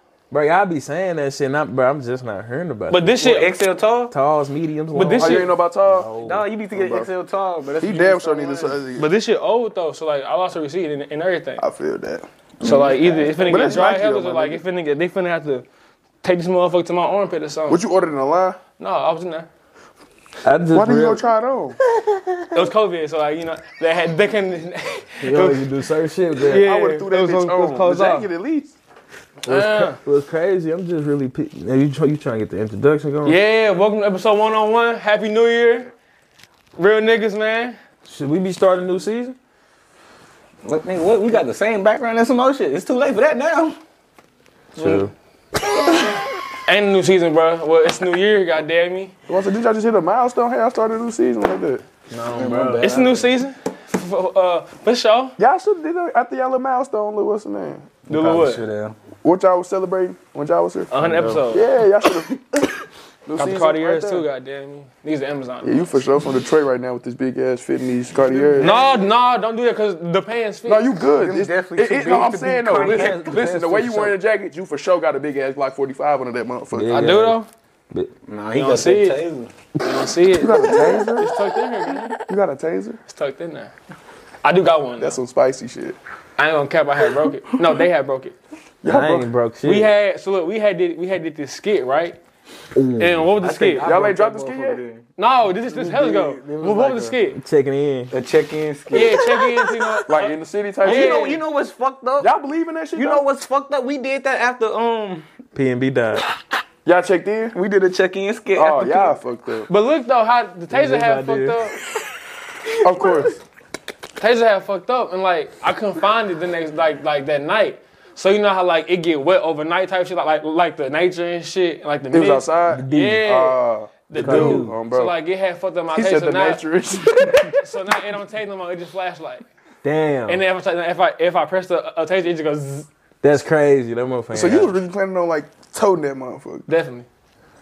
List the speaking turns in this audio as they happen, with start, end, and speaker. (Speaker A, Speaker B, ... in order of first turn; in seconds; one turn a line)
Speaker A: 0.3-3.2
Speaker B: 2.9-3.5
Speaker C: 3.2-4.1
Speaker A: 4.1-6.5
Speaker B: 4.9-5.5
Speaker D: 5.2-6.1
Speaker C: 6.2-8.8
Speaker D: 6.7-7.1
Speaker D: 7.8-9.1
Speaker B: 9.0-11.6
Speaker D: 11.6-14.6
Speaker B: 12.6-15.7
Speaker B: 16.2-17.8
Speaker D: 17.7-18.6
Speaker B: 18.8-19.5
Speaker A: 20.4-21.2
Speaker D: 20.7-21.8
Speaker B: 22.5-25.7
Speaker A: 25.2-26.7
Speaker B: 26.4-28.3
Speaker D: 26.5-28.8
Speaker A: 29.5-33.4
Speaker B: 29.5-30.0
Speaker B: 33.2-35.9
Speaker B: 36.8-37.8
Speaker A: 38.0-39.4
Speaker C: 40.6-43.8
Speaker C: 44.8-45.0
Speaker A: 44.8-45.1
Speaker B: 46.7-49.1
Speaker D: 49.3-51.8
Speaker A: 52.1-52.9
Speaker C: 52.2-53.3
Speaker B: 52.8-55.4
Speaker D: 55.4-57.9
Speaker B: 58.1-58.6
Speaker C: 58.1-59.0
Speaker D: 59.2-60.9
Speaker B: 60.9-61.7
Speaker C: 61.0-61.4
Speaker D: 61.5-62.4
Speaker D: 63.3-64.3
Speaker B: 63.4-65.9
Speaker D: 65.6-68.8
Speaker C: 68.2-69.0
Speaker B: 68.6-70.9
Speaker D: 70.7-77.0
Speaker C: 71.1-74.2
Speaker A: 76.7-77.4
Speaker B: 76.9-77.5
Speaker C: 78.3-79.5
Speaker B: 78.5-79.2
Speaker B: 79.8-82.2
Speaker D: 80.4-81.3
Speaker C: 80.7-81.0
Speaker D: 82.3-83.0
Speaker B: 83.1-83.7
Speaker B: 84.4-85.2
Speaker D: 85.0-86.0
Speaker B: 86.4-88.3
Speaker D: 88.8-89.3
Speaker A: 88.8-89.9
Speaker B: 89.6-92.2
Speaker A: 92.8-93.2
Speaker B: 93.0-93.9
Speaker C: 93.4-95.0
Speaker D: 93.8-94.8
Speaker B: 95.2-97.4
Speaker C: 95.7-97.2
Speaker A: 97.3-98.1
Speaker C: 98.1-100.0
Speaker B: 98.9-101.4
Speaker D: 100.1-101.3
Speaker C: 100.8-102.3
Speaker D: 102.2-103.2
Speaker C: 102.9-105.2
Speaker A: 105.5-106.2
Speaker D: 106.8-107.6
Speaker C: 107.5-109.2
Speaker D: 108.6-109.7
Speaker B: 109.7-111.8
Speaker A: 110.7-111.6
Speaker D: 112.8-113.4
Speaker C: 112.8-113.3
Speaker B: 114.2-126.6
Speaker D: 122.1-125.2
Speaker A: 122.7-123.3
Speaker A: 124.2-124.8
Speaker D: 125.9-127.7
Speaker B: 127.6-129.5
Speaker A: 129.8-130.4
Speaker B: 130.3-132.9
Speaker A: 133.2-134.7
Speaker D: 134.3-136.7
Speaker B: 136.7-137.1